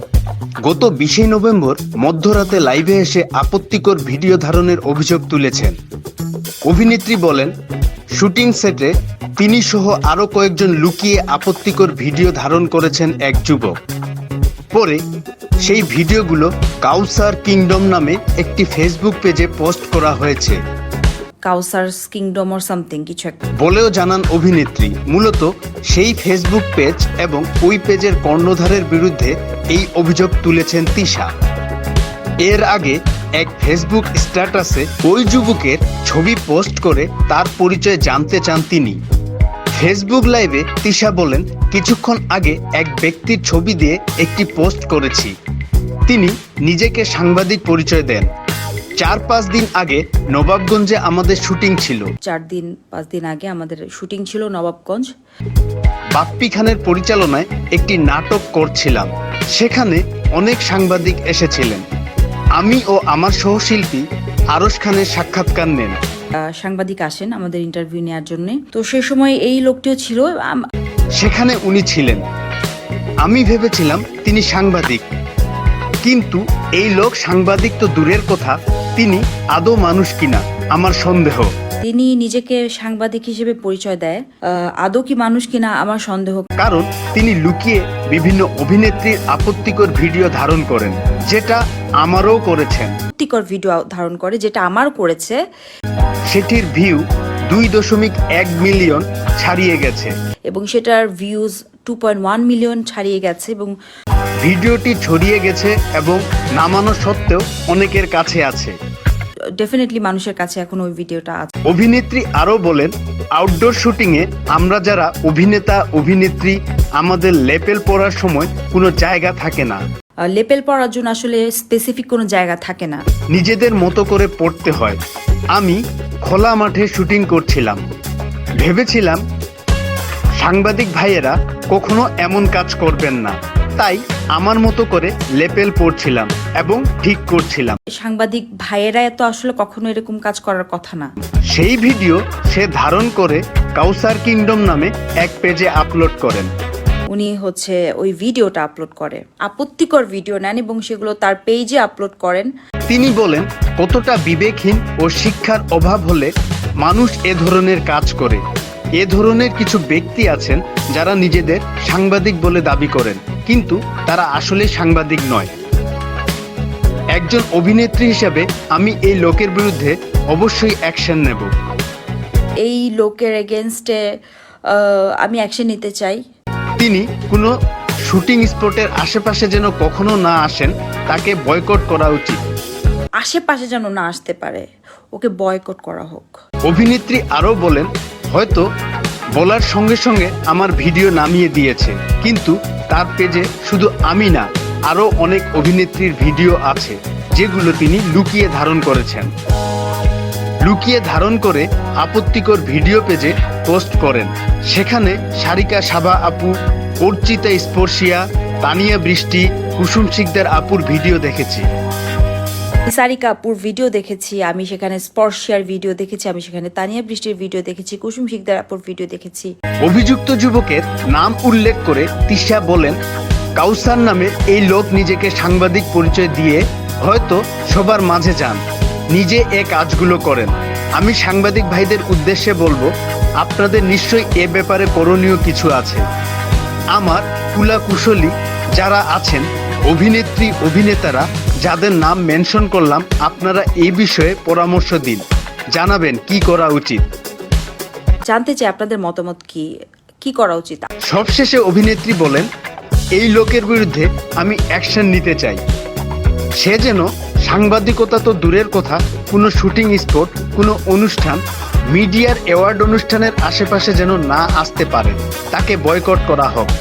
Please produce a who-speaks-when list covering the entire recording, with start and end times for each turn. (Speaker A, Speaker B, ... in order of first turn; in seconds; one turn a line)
Speaker A: 0.7-5.8
Speaker A: 6.7-7.5
Speaker A: 8.2-13.7
Speaker A: 14.7-15.0
Speaker A: 15.6-20.6
Speaker B: 21.4-23.4
Speaker A: 23.6-31.3
Speaker A: 32.4-39.0
Speaker A: 39.8-45.3
Speaker A: 46.1-48.3
Speaker A: 49.0-52.1
Speaker B: 52.2-55.1
Speaker A: 56.1-61.8
Speaker A: 62.6-66.0
Speaker B: 66.6-70.6
Speaker A: 71.2-72.2
Speaker A: 73.2-75.1
Speaker A: 76.0-81.5
Speaker B: 81.8-84.2
Speaker B: 84.8-86.5
Speaker A: 86.6-92.9
Speaker B: 93.1-95.4
Speaker A: 96.3-100.1
Speaker B: 100.5-103.7
Speaker A: 104.4-108.8
Speaker B: 109.6-111.5
Speaker A: 111.7-119.8
Speaker B: 120.3-123.0
Speaker A: 123.3-125.0
Speaker A: 125.5-127.8
Speaker A: 128.6-129.2
Speaker A: 130.4-137.8
Speaker B: 137.9-141.1
Speaker A: 141.5-146.5
Speaker B: 147.1-152.5
Speaker A: 152.9-156.3
Speaker A: 156.8-158.4
Speaker A: 159.0-165.5
Speaker A: 167.1-171.5
Speaker B: 172.6-174.0
Speaker B: 174.7-176.2
Speaker A: 176.8-177.5
Speaker A: 178.1-182.4
Speaker B: 183.2-186.4
Speaker A: 186.7-188.7
Speaker A: 189.3-199.3
Speaker A: 200.6-211.7
Speaker B: 212.9-219.5
Speaker A: 219.8-223.0
Speaker A: 223.6-228.6
Speaker A: 229.1-236.0
Speaker A: 236.9-247.0
Speaker B: 248.3-249.7
Speaker B: 250.2-250.9
Speaker A: 251.1-252.5
Speaker A: 253.2-255.6
Speaker A: 256.6-266.7